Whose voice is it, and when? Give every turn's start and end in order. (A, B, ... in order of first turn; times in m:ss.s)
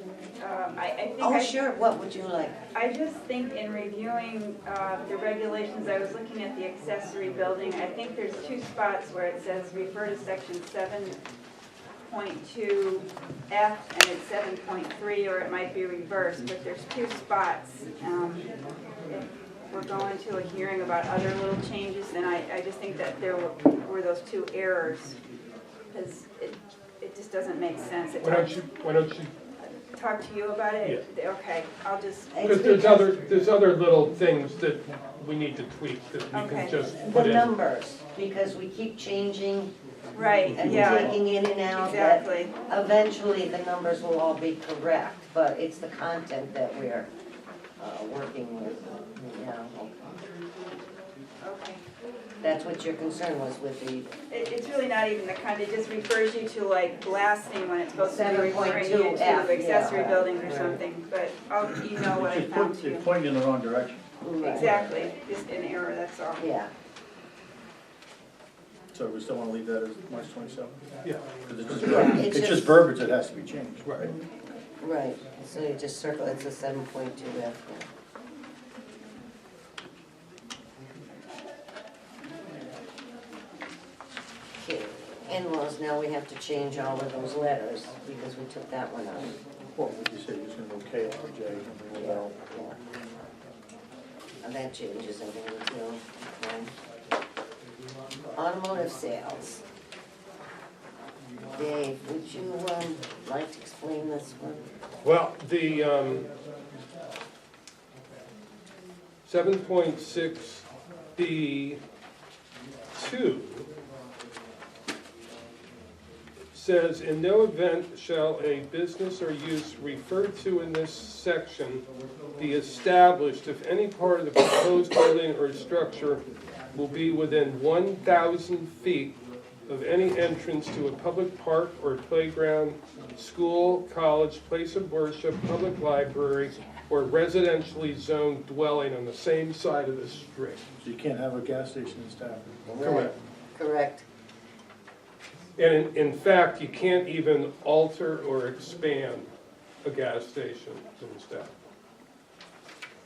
0:00.4-0:01.6 A
0:01.2-0:02.6 B
0:02.7-0:11.2 A
0:12.1-0:18.5 A
0:19.1-0:25.2 A
0:25.9-0:28.6 A
0:28.2-0:29.3 C
0:29.6-0:32.5 A
0:32.3-0:33.1 B
0:32.4-0:37.5 C
0:36.3-0:36.8 A
0:37.0-0:39.7 B
0:40.2-0:41.1 A
0:40.5-0:41.2 D
0:40.5-0:47.1 B
0:41.7-0:42.5 A
0:47.8-0:50.0 B
0:51.4-0:51.8 A
0:52.4-0:54.1 B
0:54.3-1:03.1 A
0:58.1-1:00.8 B
1:02.0-1:04.1 D
1:04.2-1:04.8 B
1:04.4-1:06.4 A
1:04.6-1:04.9 C
1:06.4-1:06.7 B
1:08.9-1:10.8 D
1:11.4-1:14.2 D
1:11.8-1:12.8 B
1:13.8-1:14.1 C
1:14.8-1:17.9 B
1:24.6-1:29.4 B
1:29.8-1:32.4 D
1:31.9-1:32.8 B
1:34.4-1:36.7 B
1:38.4-1:39.6 B
1:41.6-1:44.6 B
1:45.0-1:46.3 C
1:49.2-1:51.8 C
1:52.9-1:53.7 C
1:56.5-2:01.8 C
2:02.4-2:20.7 C
2:20.8-2:22.6 D
2:22.6-2:24.0 B
2:22.8-2:23.1 C
2:25.6-2:29.3 C
2:29.8-2:31.5 C